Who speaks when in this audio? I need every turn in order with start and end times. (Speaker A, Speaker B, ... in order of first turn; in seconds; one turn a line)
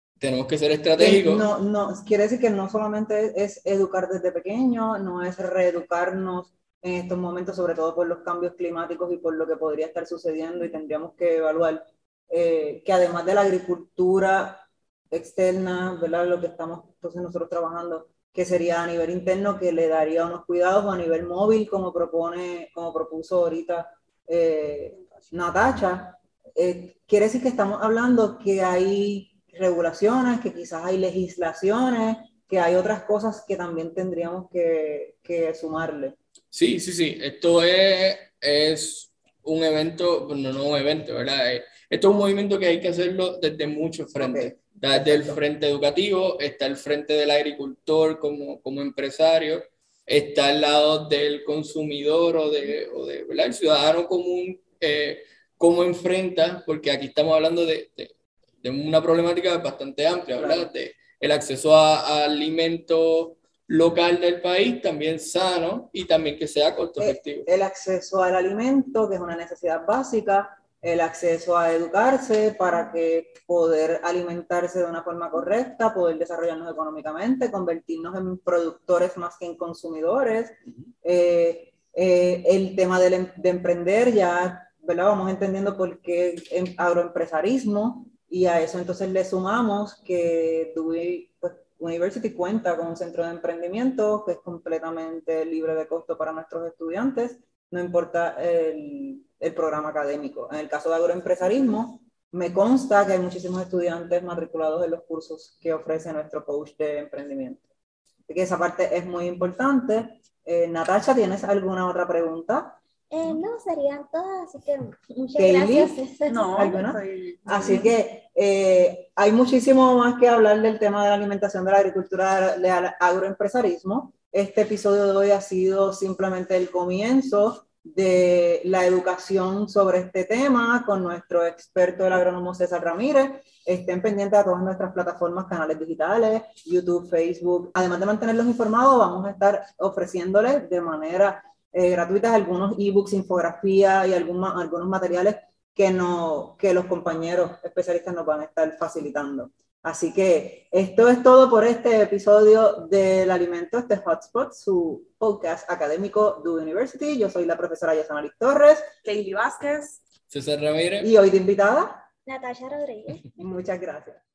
Speaker A: 0.2-1.5
Speaker B: 1.0-36.1
Speaker A: 36.5-67.5
Speaker B: 44.1-45.4
Speaker B: 60.4-60.7
Speaker B: 67.0-107.6
Speaker B: 108.3-112.8
Speaker C: 113.1-116.8
Speaker B: 115.3-116.0
Speaker D: 116.3-117.9
Speaker B: 116.5-158.9
Speaker D: 159.0-160.0
Speaker A: 160.3-161.1
Speaker B: 161.0-162.1
Speaker C: 162.2-163.3
Speaker B: 163.3-164.2